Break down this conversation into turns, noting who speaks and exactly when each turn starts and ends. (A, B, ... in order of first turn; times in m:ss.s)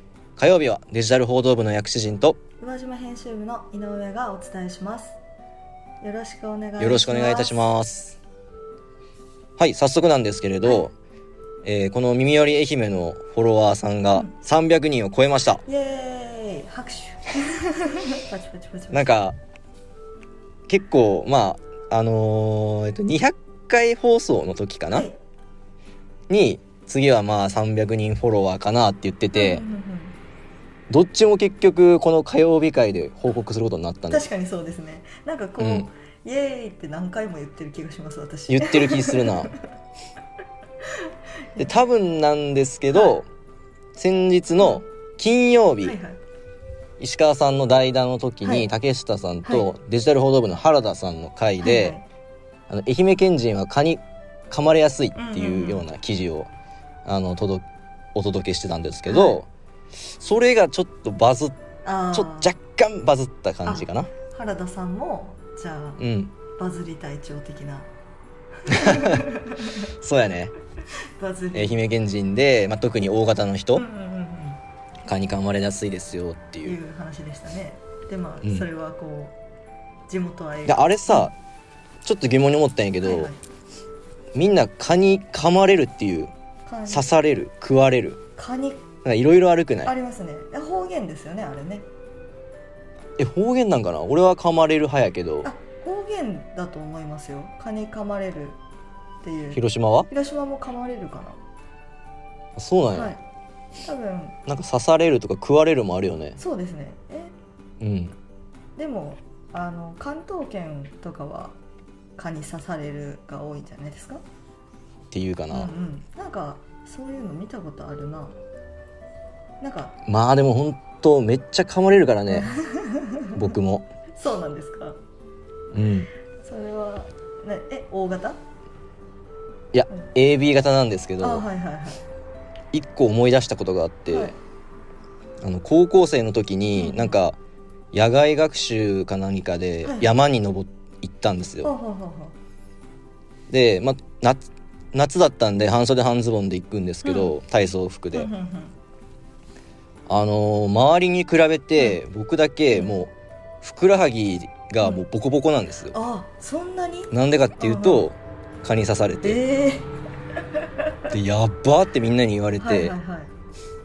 0:00.4-0:02.4 A
0:02.6-0:05.2 B
0:06.0-0:07.6 B
0:06.8-0:08.2 A
0:09.6-0:10.9 A
0:11.6-0:15.6 A
0:15.6-0:19.1 B
0:18.9-0:19.4 A
0:20.7-0:25.1 A
0:24.9-0:25.2 B
0:26.3-0:29.6 A
0:29.3-0:30.1 B
0:30.9-0:34.2 A
0:34.1-0:39.7 B
0:35.6-0:35.9 A
0:38.5-0:39.5 A
0:41.6-0:43.3 A
0:44.0-0:46.0 A
0:44.6-0:44.8 B
0:45.8-0:46.2 B
0:47.0-0:52.0 A
0:48.4-0:48.7 B
0:51.6-0:52.1 B
0:52.7-0:56.5 A
0:55.2-0:55.8 B
0:57.0-0:59.5 A
0:59.0-0:59.4 B
1:00.0-1:01.6 A
1:01.8-1:02.6 B
1:02.1-1:04.1 A
1:03.6-1:06.0 B
1:06.0-1:06.3 A
1:06.6-1:07.9 B
1:08.6-1:09.8 B
1:08.7-1:09.2 A
1:09.8-1:10.5 A
1:11.2-1:11.8 B
1:11.5-1:13.8 A
1:13.8-1:14.6 B
1:15.1-1:16.8 A
1:16.6-1:19.4 B
1:20.1-1:21.3 B
1:20.7-1:21.3 A
1:22.0-1:23.3 A
1:23.0-1:23.4 B
1:24.3-1:26.3 A
1:26.6-1:27.1 B
1:26.9-1:28.2 A
1:28.4-1:28.9 B
1:29.0-1:29.9 A
1:29.8-1:31.9 B
1:33.2-1:35.5 A
1:35.4-1:38.6 B
1:39.2-1:41.4 B
1:39.5-1:40.1 A
1:42.6-1:43.2 A
1:42.9-1:43.2 B
1:43.8-1:44.4 B
1:44.5-1:46.4 A
1:46.4-1:47.3 B
1:47.8-1:48.2 A
1:48.8-1:51.6 B
1:52.2-1:54.2 B
1:55.1-1:55.7 A
1:55.5-1:58.4 B
1:59.6-2:00.0 B
2:00.0-2:02.5 A
2:02.3-2:03.5 B
2:03.3-2:03.9 A
2:04.1-2:05.0 B
2:05.7-2:06.1 A
2:06.4-2:08.4 B
2:09.7-2:11.4 A
2:11.2-2:12.0 B
2:12.7-2:14.3 A
2:14.1-2:14.4 B
2:15.4-2:17.4 A
2:16.8-2:17.2 B
2:17.9-2:21.7 A
2:19.8-2:20.2 B
2:21.6-2:22.3 B
2:23.5-2:28.3 A
2:27.0-2:27.3 B
2:28.1-2:28.8 B
2:30.1-2:35.9 A
2:35.9-2:38.1 B
2:37.1-2:39.4 A
2:39.2-2:39.9 B
2:40.6-2:41.1 B
2:41.1-2:42.9 A
2:42.6-2:43.3 B